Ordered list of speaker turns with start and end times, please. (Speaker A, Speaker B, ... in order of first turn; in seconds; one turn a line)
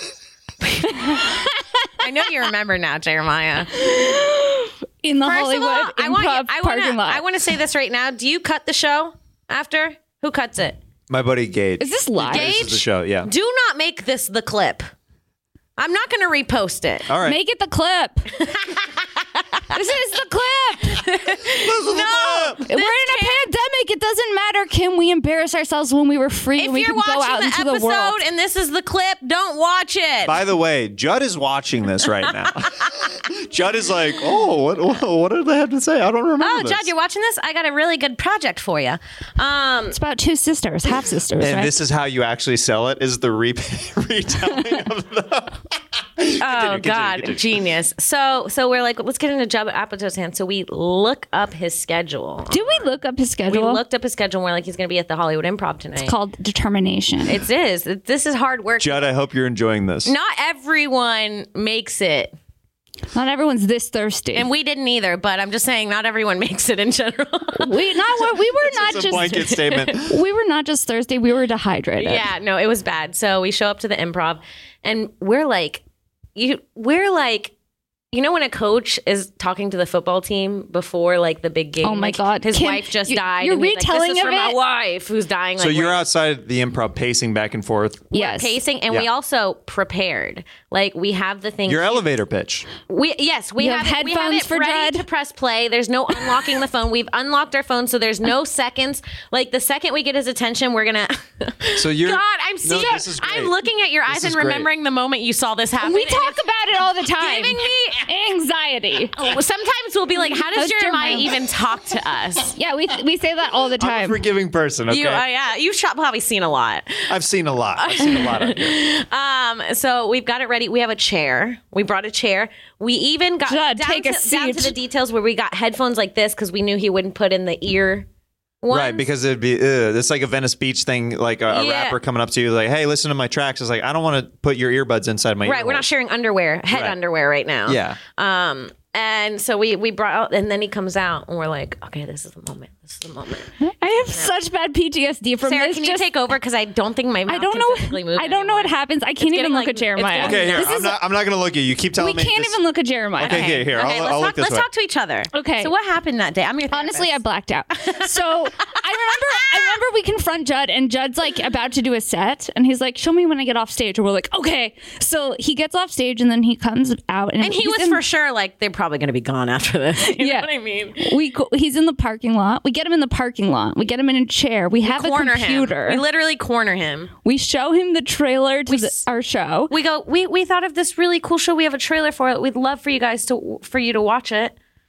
Speaker A: 0.6-1.2
Speaker A: 2.0-3.9
Speaker B: 3.7-7.2
Speaker A: 5.2-10.8
Speaker C: 11.1-13.3
Speaker B: 11.8-12.6
Speaker A: 12.3-14.9
Speaker A: 15.8-17.1
Speaker C: 17.1-17.4
Speaker B: 17.2-18.4
Speaker A: 18.4-19.8
Speaker B: 19.7-21.1
Speaker A: 20.9-23.4
Speaker C: 21.5-22.6
Speaker B: 22.7-28.2
Speaker A: 26.6-30.4
Speaker C: 30.2-36.9
Speaker A: 36.4-40.0
Speaker B: 39.9-41.8
Speaker C: 41.4-47.5
Speaker A: 46.4-52.9
Speaker B: 52.5-53.8
Speaker A: 53.5-56.1
Speaker B: 56.0-57.4
Speaker A: 57.2-59.1
Speaker C: 58.8-60.1
Speaker A: 60.0-62.3
Speaker B: 63.1-64.5
Speaker A: 64.3-68.2
Speaker B: 67.5-72.3
Speaker C: 68.6-70.2
Speaker A: 69.3-70.0
Speaker A: 72.0-75.8
Speaker A: 76.3-77.5
Speaker A: 78.1-86.0
Speaker B: 81.8-84.6
Speaker C: 85.6-88.1
Speaker A: 88.1-92.0
Speaker B: 88.1-88.6
Speaker C: 91.7-92.7
Speaker A: 92.9-106.4
Speaker B: 93.6-95.0
Speaker C: 101.8-103.5
Speaker C: 104.1-104.7
Speaker B: 105.8-109.2
Speaker A: 107.2-108.1
Speaker A: 109.1-112.5
Speaker B: 110.5-111.4
Speaker B: 112.5-114.2
Speaker C: 113.8-115.2
Speaker A: 114.9-117.1
Speaker C: 117.1-118.8
Speaker A: 117.8-128.1
Speaker B: 123.5-124.7
Speaker A: 128.6-129.0
Speaker C: 128.7-135.8
Speaker A: 131.5-132.0
Speaker A: 135.4-144.3
Speaker C: 136.7-137.0
Speaker C: 137.7-138.0
Speaker B: 143.6-146.1
Speaker A: 145.4-150.8
Speaker B: 147.3-151.0
Speaker C: 150.2-152.6
Speaker B: 152.0-153.6
Speaker C: 153.2-154.7
Speaker A: 153.2-157.2
Speaker B: 155.3-155.7
Speaker B: 156.7-168.0
Speaker A: 159.3-159.8
Speaker A: 167.4-171.2
Speaker B: 170.0-176.0
Speaker A: 174.8-177.1
Speaker B: 177.2-179.7
Speaker A: 178.7-179.0
Speaker A: 179.7-184.5